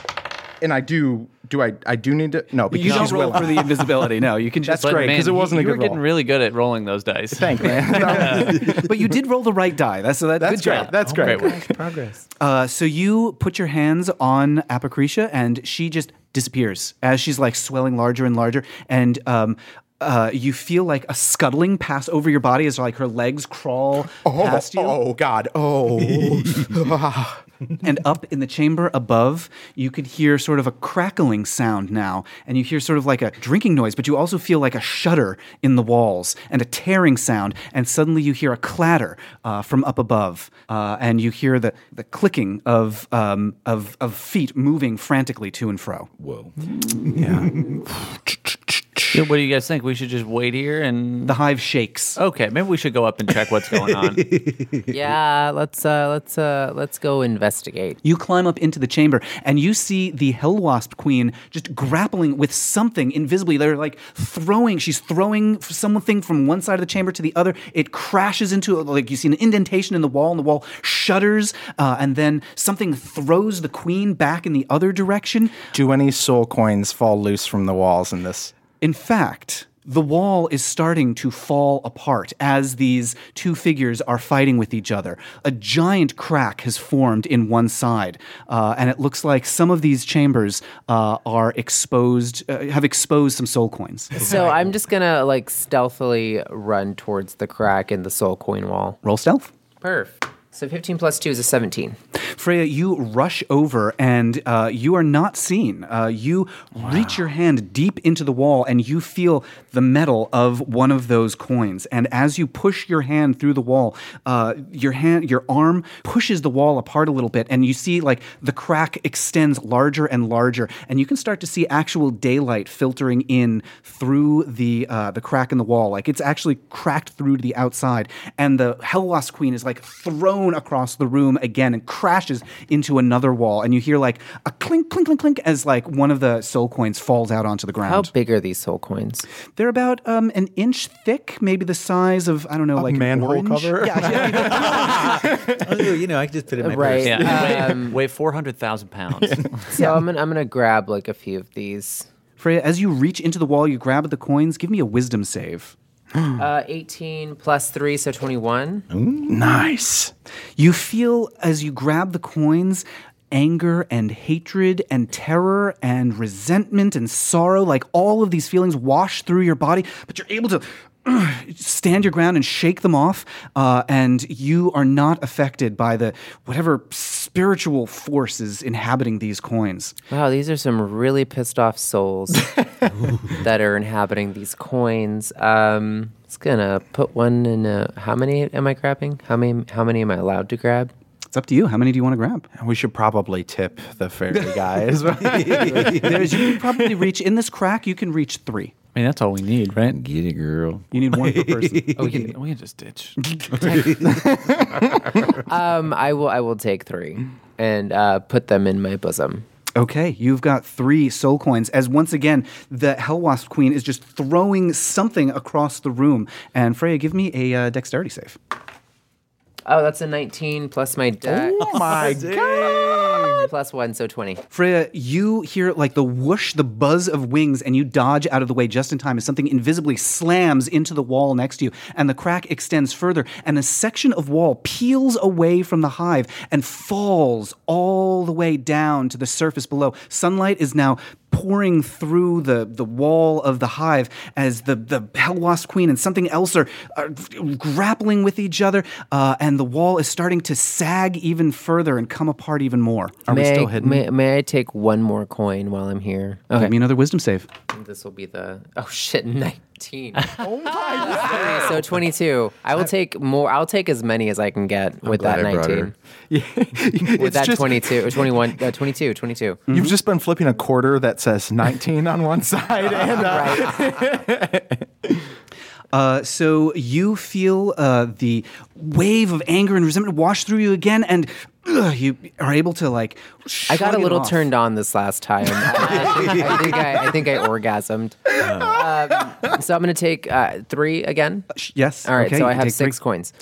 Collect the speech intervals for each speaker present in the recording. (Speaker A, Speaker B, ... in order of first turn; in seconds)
Speaker A: 0.6-3.9, 4.6-6.0, 7.3-9.0, 10.4-11.7, 24.2-27.4, 47.2-47.5, 75.7-78.5, 106.8-107.2, 142.8-145.9, 149.2-149.5, 159.3-160.1, 192.6-197.0, 204.1-204.8, 221.4-223.3, 253.3-254.0, 260.4-261.9, 266.3-268.4, 269.7-275.3
Speaker B: 2.7-5.3, 7.9-10.9, 12.4-25.0, 27.8-46.1, 51.3-52.2, 58.0-75.6, 78.8-94.3, 99.0-99.5, 102.2-138.1, 139.6-145.3, 149.7-150.0, 152.4-155.8, 160.6-179.9, 191.3-192.5, 194.3-198.7, 200.9-202.4, 203.2-204.0, 209.8-218.4, 224.5-253.2, 256.6-257.5, 269.7-269.9, 275.9-284.5, 291.5-293.0
Speaker C: 2.8-3.3, 4.8-8.6, 10.6-11.6, 49.1-51.4, 52.2-54.2, 147.1-149.7, 198.9-200.0, 202.0-203.2
Speaker D: 11.0-12.3, 26.2-26.7, 46.2-47.8, 53.9-55.1, 144.2-147.8, 158.9-159.3, 195.2-196.3, 199.9-202.3, 203.5-205.4, 221.4-223.5, 265.0-265.9, 285.6-287.1, 288.4-288.8
Speaker E: 54.9-58.0, 94.2-99.0, 99.8-102.0, 137.8-139.3, 146.6-148.0, 149.7-152.1, 156.4-158.9, 180.1-182.5, 183.3-190.9, 205.4-209.4, 219.7-221.6, 223.3-224.4, 253.3-256.8, 257.7-260.4, 261.0-265.9, 267.1-269.6, 273.2-273.8, 283.7-291.5, 292.1-293.3